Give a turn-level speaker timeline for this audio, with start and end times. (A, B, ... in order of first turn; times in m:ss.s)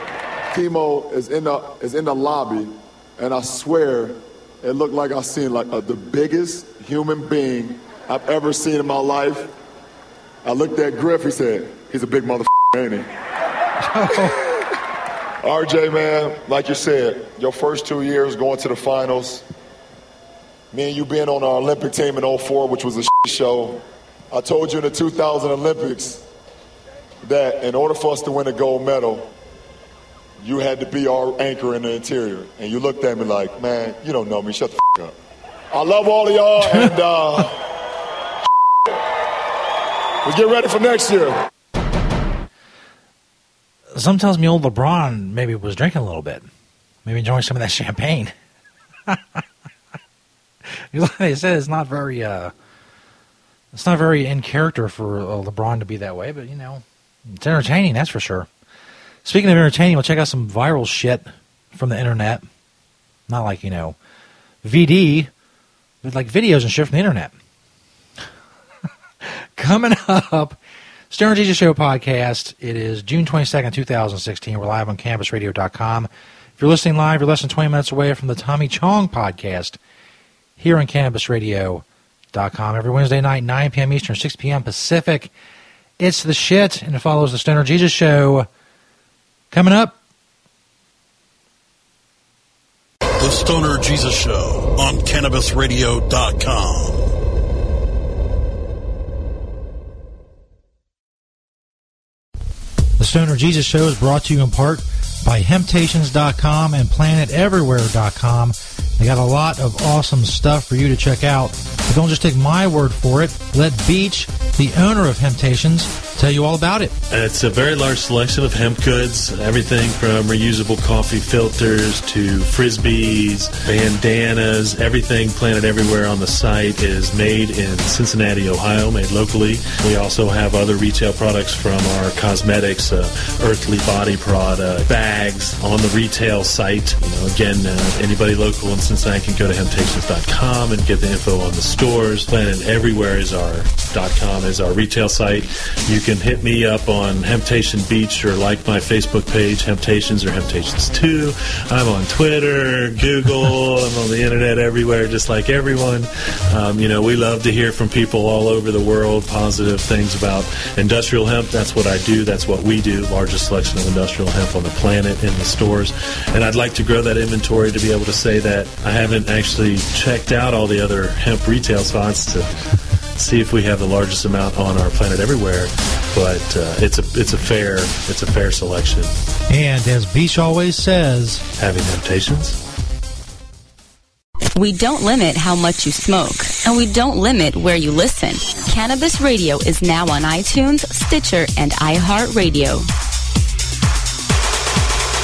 0:00.5-0:09.5 A
0:10.4-0:13.1 A
0:13.8-0:14.4 B
0:15.4-0:19.4 A
0:20.7-0:26.2 A
0:27.2-0:29.3 A
0:30.4-0:35.2 A
0:35.7-0:37.6 A
0:40.2-0:41.4 A
0:43.9-0:46.4 B
0:47.0-0:48.3 B
0:49.1-0:49.4 B
0:50.7-0:52.5 B
0:53.7-0:58.5 B
0:59.2-1:02.4 B
1:03.3-1:04.0 B
1:04.6-1:05.3 B
1:06.0-1:07.3 B
1:09.2-1:10.6 B
1:11.1-1:19.8 B
1:20.6-1:25.3 B
1:26.0-1:28.5 B
1:29.5-1:30.0 B
1:33.2-1:37.1 C
1:43.0-1:56.9 B
1:57.1-2:52.5 D
2:53.2-2:59.1 D
2:59.5-3:01.4 B
3:01.6-3:02.6 D
3:04.6-3:12.9 E